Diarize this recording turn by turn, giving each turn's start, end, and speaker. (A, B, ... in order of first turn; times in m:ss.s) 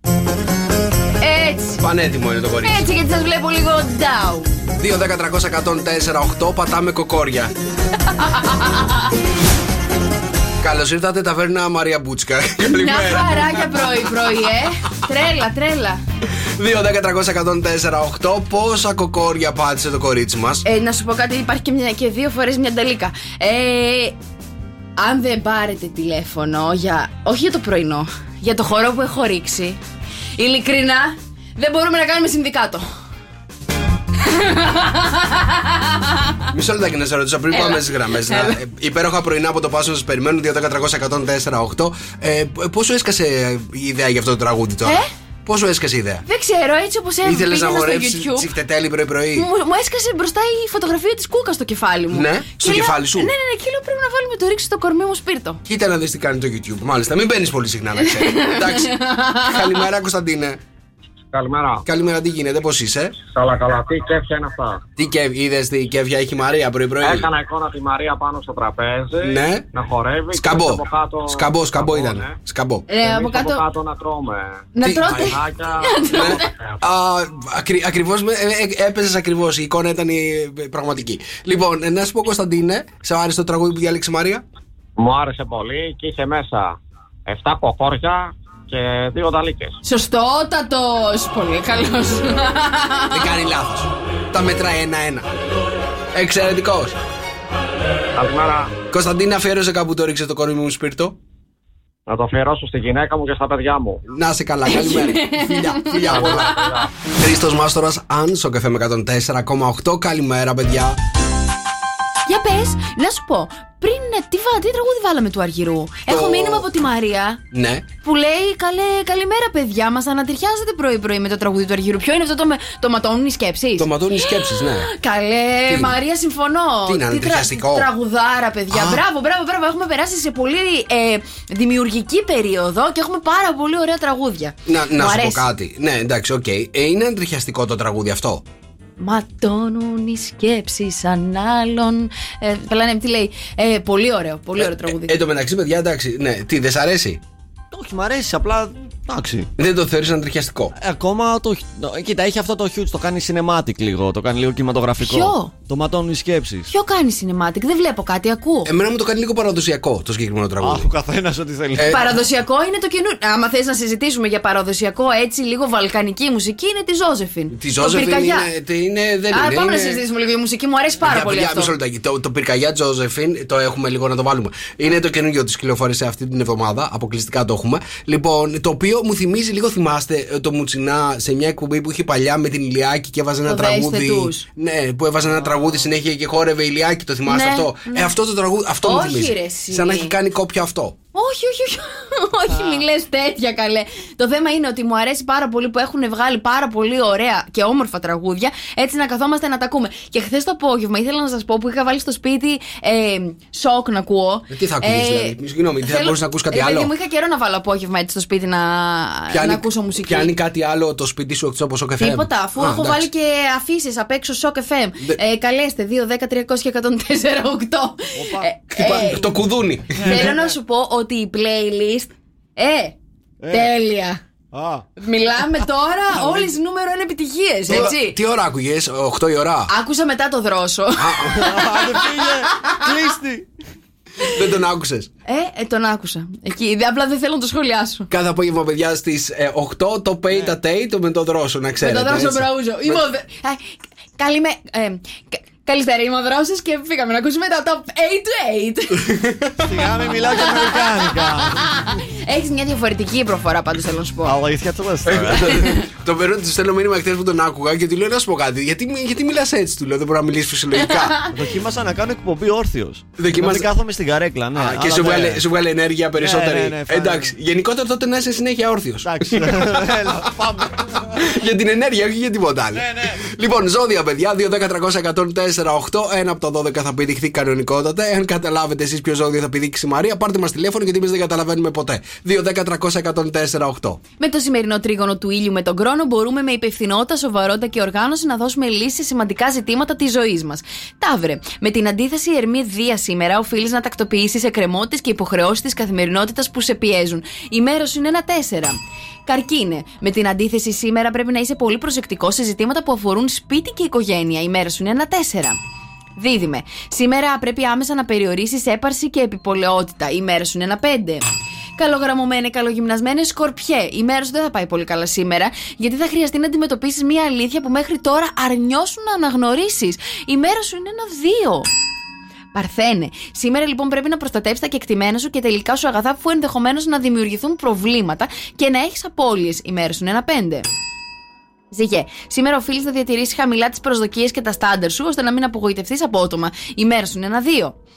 0:01.2-0:01.8 A
0:01.8-0:02.9 B
0:02.6-0:04.5 A
0:04.7-0:07.5 B
0:08.1-0:09.1 A
0:10.6-0:14.0 B
0:12.6-0:16.0 A
0:16.6-0:20.6 B
0:20.6-0:24.2 A
0:25.0-0:29.8 A
0:30.4-0:32.8 A
0:34.2-0:36.4 A
0:36.5-0:46.2 B
0:37.5-0:38.6 A
0:46.2-0:48.5 A
0:47.2-0:49.5 B
0:49.4-0:55.6 A
0:52.1-0:53.3 B
0:55.6-1:00.6 B
0:58.0-0:59.8 A
1:01.3-1:01.8 C
1:01.8-1:03.2 B
1:03.2-1:04.8 C
1:05.0-1:07.3 B
1:07.0-1:12.4 C
1:09.2-1:09.6 B
1:10.3-1:12.8 B
1:12.9-1:13.6 A
1:12.9-1:16.4 C
1:14.7-1:16.5 A
1:14.8-1:15.4 B
1:16.1-1:24.4 B
1:25.0-1:26.8 C
1:27.3-1:29.8 C
1:29.8-1:33.3 A
1:33.1-1:35.3 B
1:36.1-1:37.0 B
1:38.2-1:38.8 C
1:38.9-1:41.2 B
1:42.1-1:44.0 C
1:44.1-1:51.0 B
1:44.6-1:46.7 A
1:46.0-1:46.9 C
1:52.2-1:57.4 A
1:56.1-1:56.7 B
1:57.5-1:57.9 B
1:58.0-2:15.5 A
2:03.8-2:04.9 B
2:05.7-2:06.0 B
2:06.8-2:07.9 B
2:08.7-2:09.0 B
2:14.6-2:18.4 B
2:19.0-2:25.2 A
2:24.6-2:27.2 B
2:27.7-2:29.5 D
2:29.6-2:30.7 B
2:30.8-2:36.7 D
2:35.0-2:35.5 A
2:36.7-2:38.7 A
2:38.6-2:40.9 B
2:40.6-2:42.1 D
2:41.8-2:42.1 B
2:41.8-2:48.5 A
2:47.5-2:50.0 B
2:49.3-2:51.7 A
2:51.0-3:11.0 B
3:03.5-3:04.4 A
3:05.3-3:05.7 D
3:07.3-3:08.1 A
3:08.8-3:10.1 A
3:11.1-3:30.3 A
3:24.5-3:26.9 B
3:29.3-3:33.1 B
3:32.0-3:39.3 A
3:38.1-3:38.5 D
3:38.7-3:40.1 B
3:40.0-3:40.5 D
3:40.0-3:43.0 A
3:43.4-3:43.7 D
3:43.5-3:44.2 A
3:44.5-3:44.8 D
3:45.0-3:48.2 A
3:46.2-3:46.4 D
3:47.7-3:49.7 B
3:49.7-3:52.8 A
3:51.0-3:51.5 B
3:51.3-3:53.5 D
3:54.2-3:55.1 B
3:55.3-3:58.1 A
3:58.1-4:03.0 B
4:01.8-4:03.6 A
4:04.2-4:09.1 A
4:09.0-4:09.6 B
4:09.6-4:11.8 D
4:10.4-4:14.4 A
4:14.2-4:15.8 D
4:15.1-4:21.2 B
4:20.8-4:21.3 A
4:21.3-4:25.4 D
4:23.2-4:23.7 B
4:24.5-4:29.9 B
4:26.2-4:27.3 D
4:29.0-4:31.2 D
4:31.1-4:44.0 B
4:32.7-4:33.2 D
4:44.2-5:05.6 A
5:06.2-5:11.2 A
5:11.8-5:21.7 A
5:22.5-5:30.6 A
5:31.7-5:37.8 A